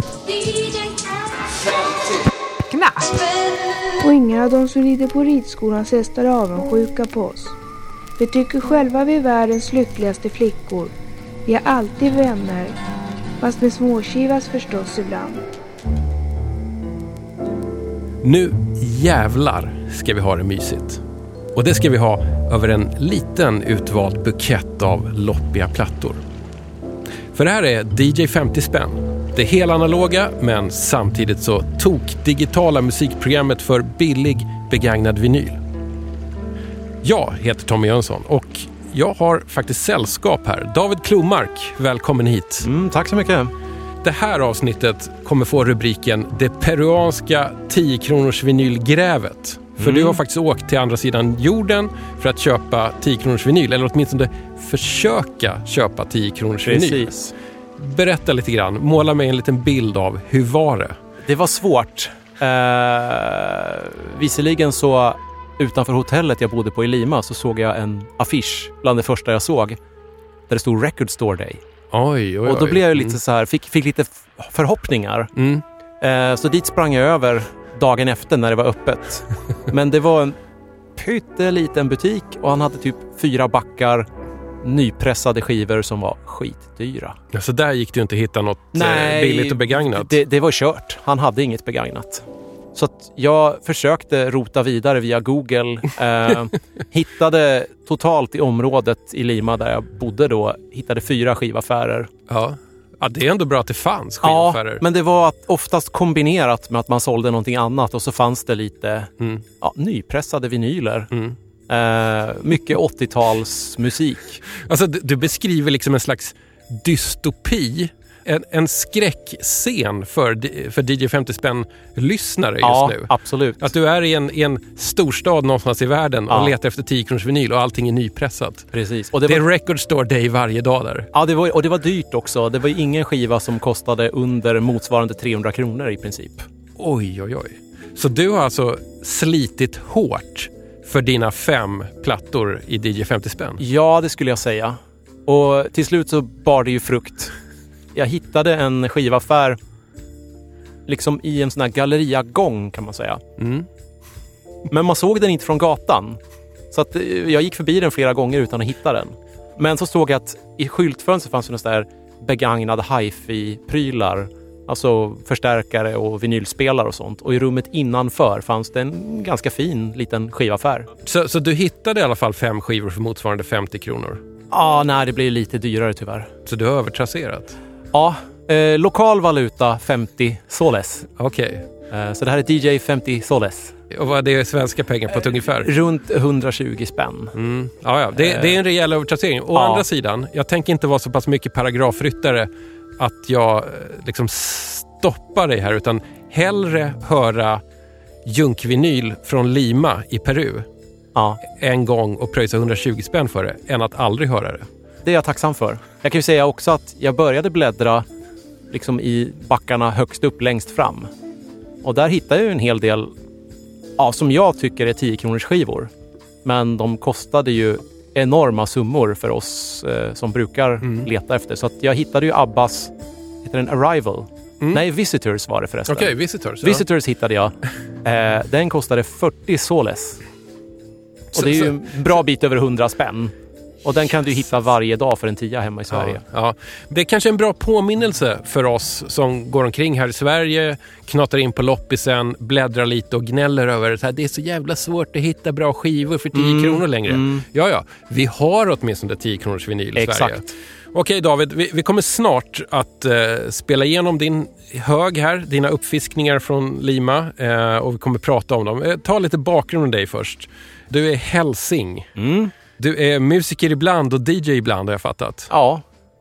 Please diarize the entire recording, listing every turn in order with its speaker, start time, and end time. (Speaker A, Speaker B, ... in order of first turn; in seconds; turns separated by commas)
Speaker A: 0.3-1.2, Speaker A: 2.7-3.9, Speaker B: 4.0-7.6, Speaker B: 8.2-10.9, Speaker B: 11.4-12.8, Speaker B: 13.4-15.4, Speaker C: 18.2-21.0, Speaker C: 21.5-26.2, Speaker C: 27.3-35.6, Speaker C: 37.0-42.7, Speaker D: 42.6-43.5, Speaker C: 44.0-57.1, Speaker D: 49.8-50.2, Speaker D: 56.6-57.3, Speaker C: 57.8-61.0, Speaker D: 61.2-69.8, Speaker D: 70.5-71.6, Speaker C: 71.9-73.2, Speaker D: 72.5-75.3, Speaker C: 75.4-75.6, Speaker D: 76.0-80.4, Speaker D: 81.0-84.1, Speaker D: 84.6-87.2, Speaker C: 87.3-90.2, Speaker D: 88.7-92.2, Speaker D: 92.8-102.1, Speaker C: 102.3-104.8, Speaker D: 104.2-111.1, Speaker C: 111.1-111.4, Speaker D: 111.7-114.4, Speaker C: 114.5-128.7, Speaker D: 122.6-123.6, Speaker D: 128.7-129.4, Speaker C: 129.3-131.1, Speaker D: 131.1-136.5, Speaker C: 136.8-143.6, Speaker D: 143.6-147.3, Speaker D: 147.9-149.6, Speaker D: 150.9-153.2, Speaker C: 153.4-153.7, Speaker D: 154.7-156.2, Speaker D: 156.7-170.9, Speaker C: 171.1-174.2, Speaker D: 174.5-176.3, Speaker C: 176.5-177.6, Speaker D: 177.9-181.1, Speaker C: 181.2-181.7, Speaker D: 181.9-183.8, Speaker C: 183.9-185.7, Speaker D: 185.5-187.3, Speaker C: 187.3-197.6, Speaker D: 188.2-188.6, Speaker D: 189.5-189.8, Speaker C: 198.2-200.7, Speaker D: 201.2-201.4, Speaker C: 201.4-204.7, Speaker D: 205.0-208.1, Speaker D: 208.7-211.1, Speaker D: 211.8-213.1, Speaker D: 214.0-215.9, Speaker D: 216.4-230.2, Speaker C: 220.8-221.1, Speaker C: 225.9-226.8, Speaker D: 231.3-236.2, Speaker C: 231.3-231.7, Speaker C: 235.9-262.1, Speaker D: 246.3-247.4, Speaker D: 250.0-250.5, Speaker D: 262.2-262.5, Speaker C: 262.8-265.5, Speaker D: 265.5-265.8